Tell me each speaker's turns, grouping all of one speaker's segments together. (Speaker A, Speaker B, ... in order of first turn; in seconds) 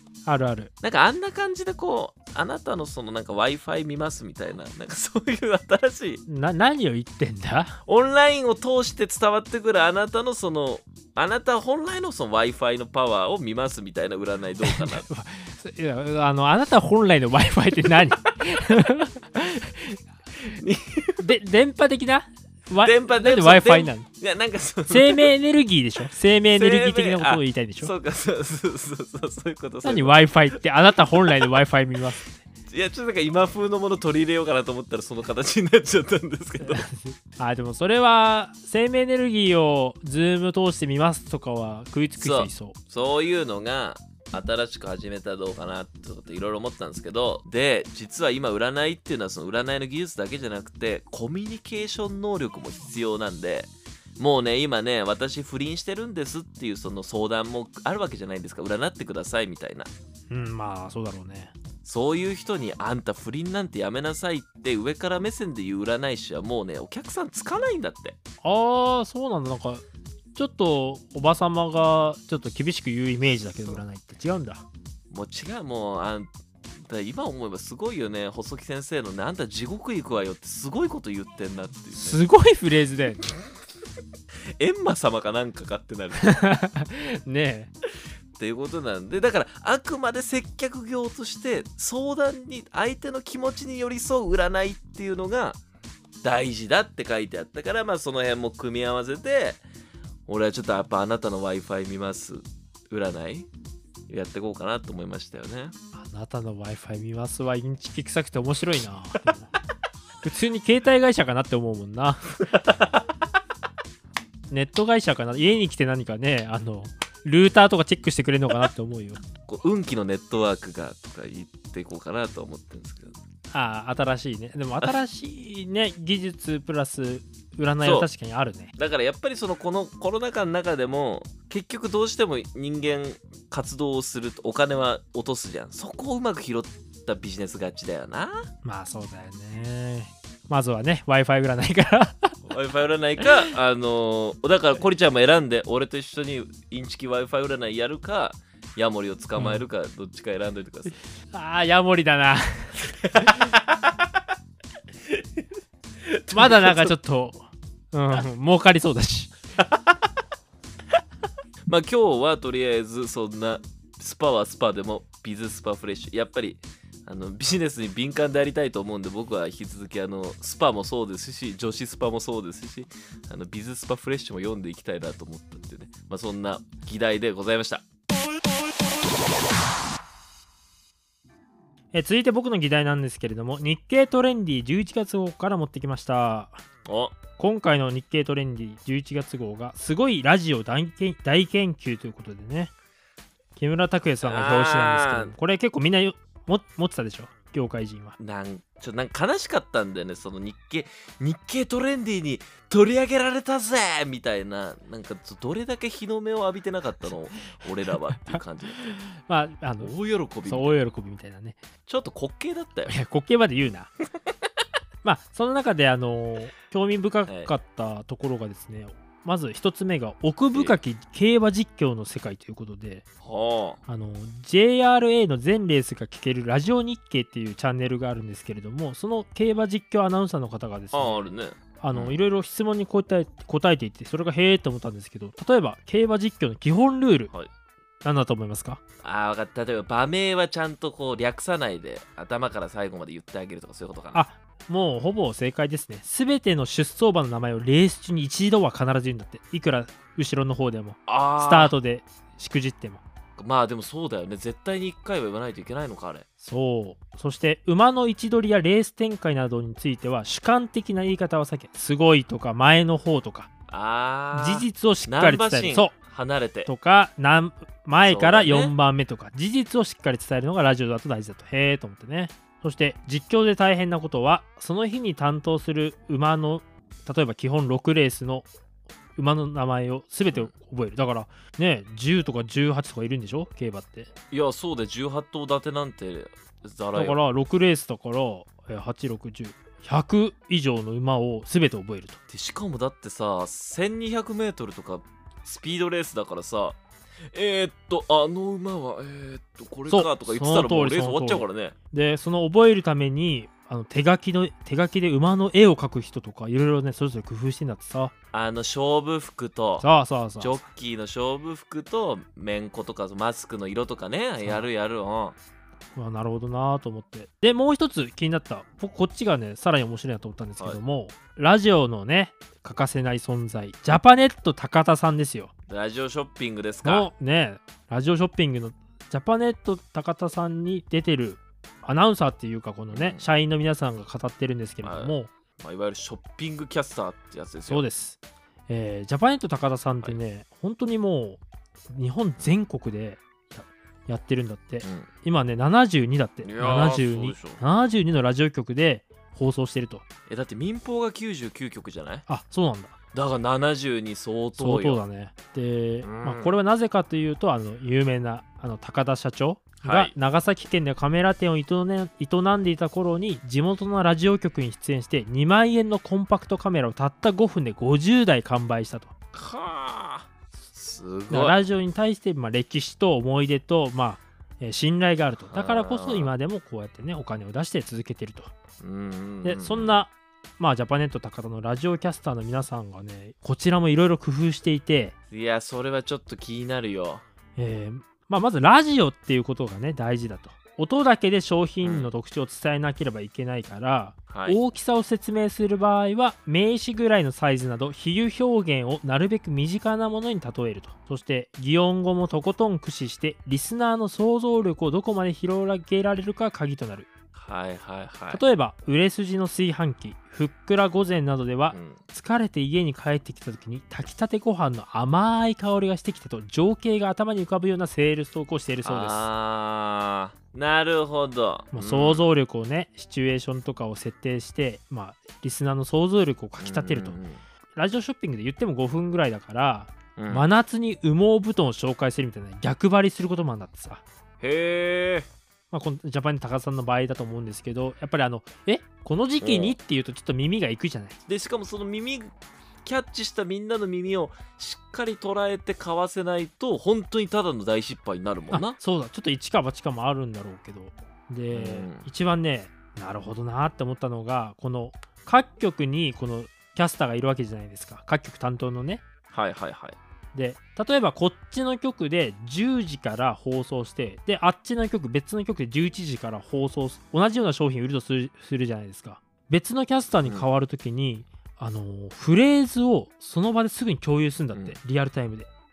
Speaker A: 0.3-0.7, 6.3-7.8, 14.6-20.0, 21.2-24.1, 24.9-27.9, 29.8-32.3, 36.6-42.8, 60.3-61.5, 68.4-69.8, 70.4-74.7, 81.9-83.3, 86.2-87.7, 106.0-109.5, 110.2-112.4, 114.5-119.2, 123.5-128.7, 138.6-142.4, 149.4-149.6, 151.3-153.4, 156.3-159.3, 181.9-186.6, 187.4-192.7, 193.6-198.2, 208.2-209.9, 210.4-211.6, 212.9-213.9, 215.0-223.1, 223.9-237.3, 238.0-238.8, 244.1-253.0, 256.4-263.5, 264.3-265.9, 266.7-278.5, 279.2-284.1, 286.9-292.2, 299.9-308.1, 309.8-310.6, 316.0-325.5, 326.8-335.3, 337.7-350.1, 352.3-352.9, 354.6-369.1, 371.3-378.5, 379.4-385.1, 387.6-407.1, 408.3-419.2, 421.7-427.1, 427.8-434.0, 435.7-441.2, 448.5-459.0, 460.3-475.5
Speaker B: 0.8-6.2, 7.9-15.1, 20.4-21.2, 22.8-25.3, 26.5-30.6, 31.1-31.6, 32.7-36.8, 42.2-59.9, 61.8-68.2, 75.1-82.2, 84.6-86.4, 88.3-95.6, 96.2-99.6, 100.3-103.5, 104.1-105.7, 119.4-123.2, 127.8-128.1, 128.8-138.5, 142.4-150.9, 153.2-154.1, 155.1-155.4, 156.0-156.9, 159.6-159.9, 161.7-177.8, 186.8-187.2, 194.2-195.3, 198.2-208.8, 209.8-210.8, 211.9-212.9, 217.3-217.5, 220.5-220.8, 223.2-223.8, 230.9-232.2, 239.0-244.2, 251.1-251.7, 253.4-256.2, 263.7-266.7, 268.1-268.7, 284.3-287.2, 292.3-301.8, 308.3-309.9, 310.4-315.4, 325.7-327.1, 332.9-333.2, 334.8-337.9, 344.8-345.1, 346.4-347.6, 350.3-352.2, 353.1-355.0, 356.0-356.6, 359.8-360.1, 369.3-371.6, 375.5-376.3, 378.8-379.9, 385.3-387.2, 391.8-392.1, 394.3-394.6, 407.4-408.4, 411.7-412.0, 418.9-422.2, 426.6-427.4, 430.2-430.5, 434.4-435.3, 439.4-439.8, 441.3-442.3, 442.8-448.8, 451.5-452.1, 459.3-460.0